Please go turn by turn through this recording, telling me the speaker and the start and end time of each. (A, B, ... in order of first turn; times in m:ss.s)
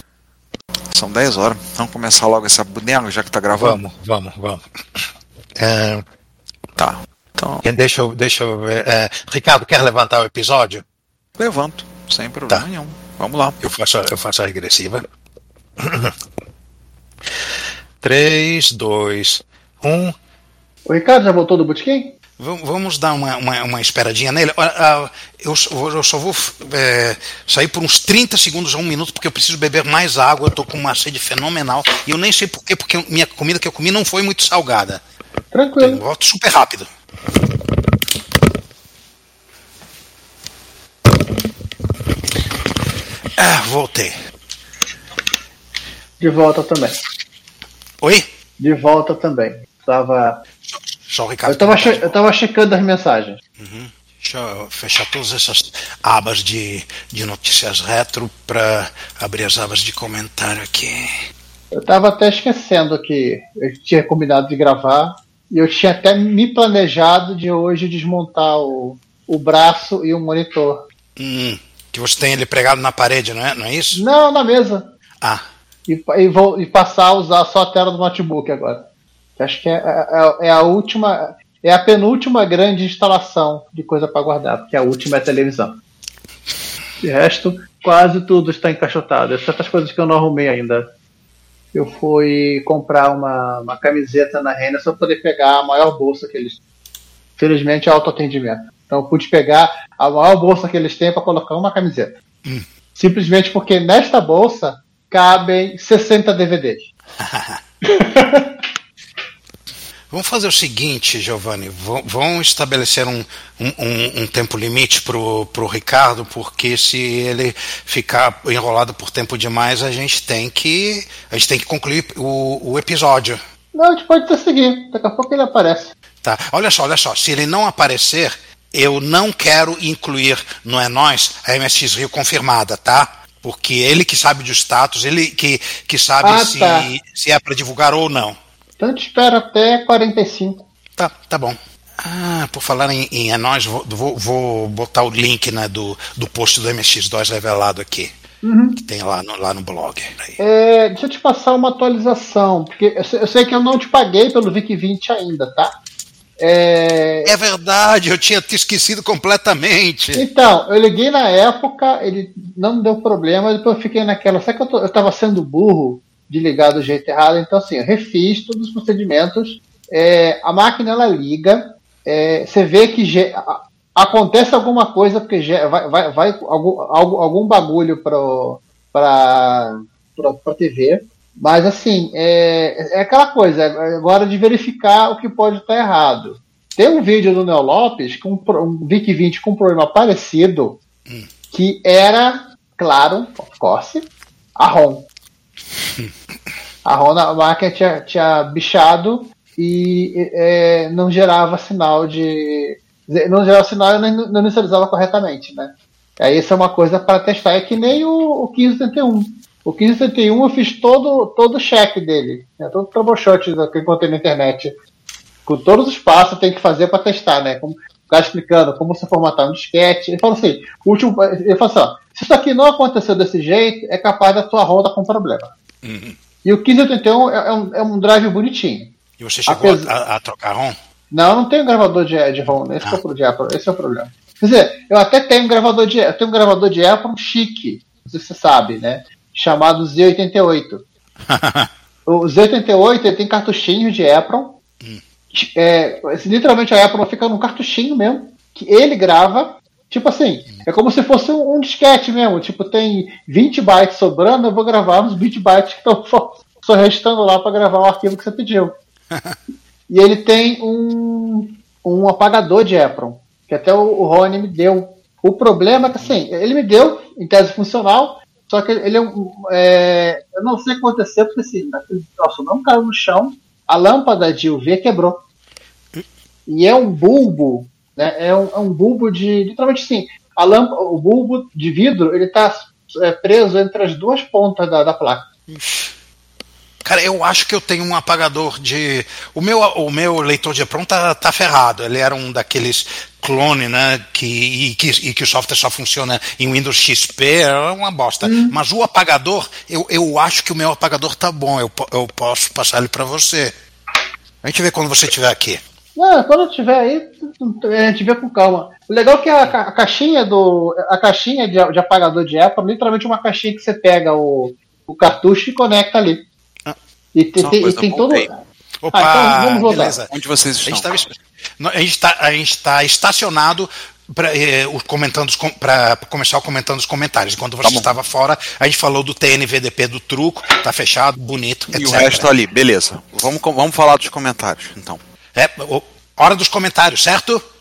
0:00.9-0:03.8 A
0:03.5-0:05.0 B
0:05.6-0:06.0 B
0:06.8-0:07.6 A
0:07.6-0:10.8 B
0:11.4-0:13.6 A
0:13.6-0:15.0 B
0:15.8-0:16.1 B
0:18.0-0:20.1 B
0:20.8-0:22.1 C
0:22.4-0:35.0 B
0:35.5-0:36.0 C
0:35.8-0:36.9 B
0:43.4-0:44.1 B
0:46.2-0:47.0 C
0:48.0-0:48.3 B
0:48.6-0:50.4 C
0:50.7-0:52.1 B
0:51.5-0:53.4 C
0:53.6-1:01.2 B
1:01.7-1:10.8 C
1:11.2-1:14.0 B
1:13.9-1:14.9 C
1:15.9-1:18.8 C
1:19.4-1:25.8 C
1:27.0-1:30.8 C
1:31.7-1:36.6 C
1:37.4-1:42.1 C
1:43.0-1:46.9 C
1:47.2-1:47.6 B
1:47.8-1:48.5 C
1:50.1-2:03.4 B
2:03.7-2:05.9 C
2:06.2-2:18.4 B
2:16.2-2:16.9 C
2:18.8-2:20.6 C
2:21.0-2:28.2 B
2:28.4-2:28.8 C
2:28.8-2:30.4 B
2:30.4-2:35.7 C
2:36.4-2:37.3 C
2:37.2-2:40.3 B
2:40.1-3:10.8 C
3:11.5-3:15.1 C
3:16.8-3:34.7 C
3:35.4-3:45.5 C
3:45.8-3:46.2 B
3:46.4-3:48.9 C
3:49.2-3:50.8 B
3:49.5-3:49.9 C
3:51.1-4:00.8 C
3:52.5-3:53.0 B
4:01.3-4:01.7 B
4:02.1-4:04.6 C
4:05.3-4:18.7 C
4:19.9-4:35.2 C
4:36.5-4:45.3 C
4:45.5-4:45.9 B
4:46.8-5:03.5 B
4:58.2-4:58.6 C
5:04.4-5:05.6 B
5:06.0-5:16.2 C
5:17.1-5:18.4 C
5:17.4-5:18.3 A
5:18.8-5:20.1 B
5:18.9-5:20.0 C
5:20.1-5:21.0 A
5:20.6-5:32.3 B
5:31.7-5:35.0 A
5:35.4-5:37.4 B